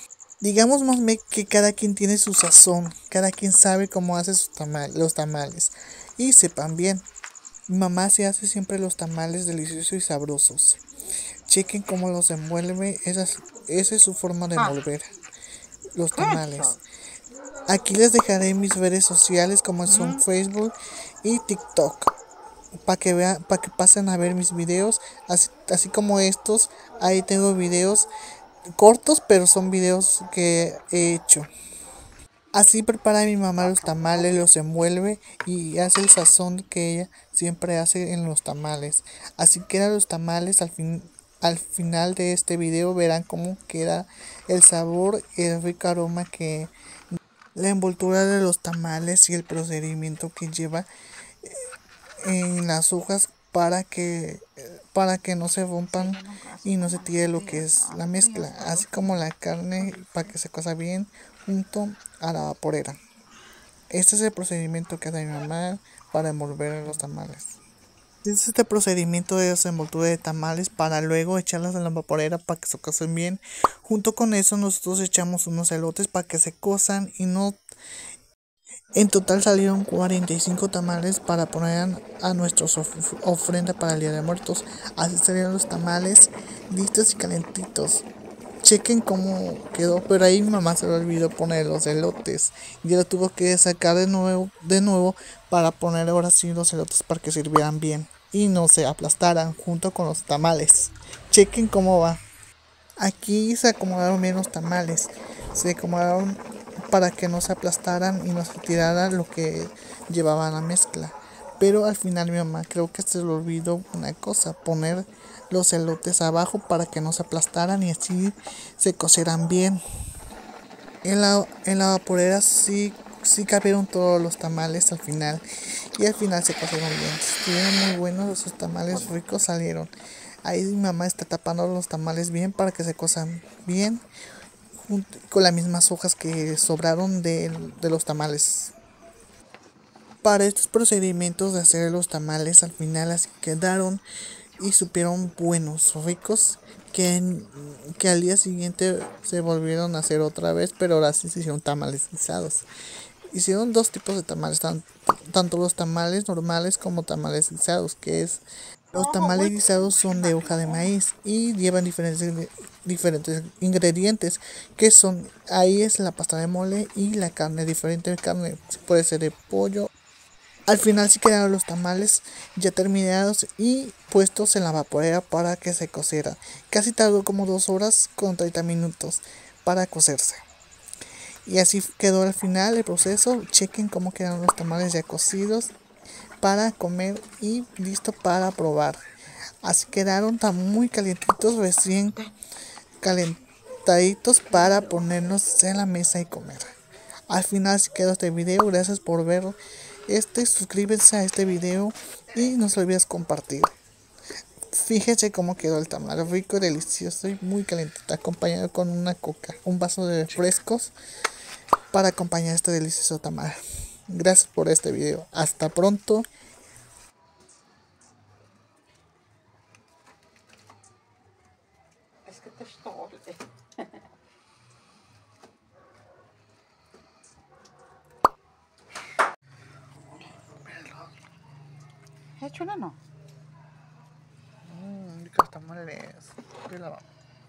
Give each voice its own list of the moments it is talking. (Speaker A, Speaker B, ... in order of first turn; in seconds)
Speaker A: 0.4-7.1, 7.7-10.8, 11.5-15.1, 15.9-16.8, 17.7-22.1, 22.9-28.1, 28.8-31.5, 32.5-46.7, 47.6-50.9, 52.2-63.0, 63.9-67.6, 68.2-77.6, 79.0-88.1, 88.6-102.2, 103.0-119.8, 121.0-125.4, 126.0-129.9, 130.4-134.0, 134.8-138.7, 140.2-144.0, 144.6-152.7, 153.3-158.4, 158.9-169.9, 170.7-180.4, 181.5-185.7, 186.4-189.0, 189.6-192.2, 193.0-196.7, 197.3-199.6, 200.1-203.7, 204.7-210.9, 211.9-213.6, 214.1-216.3, 234.7-237.0
Speaker B: 16.1-16.8, 19.9-20.2, 33.6-34.3, 55.9-59.2, 59.8-60.2, 159.0-160.8, 222.3-223.9, 232.4-233.0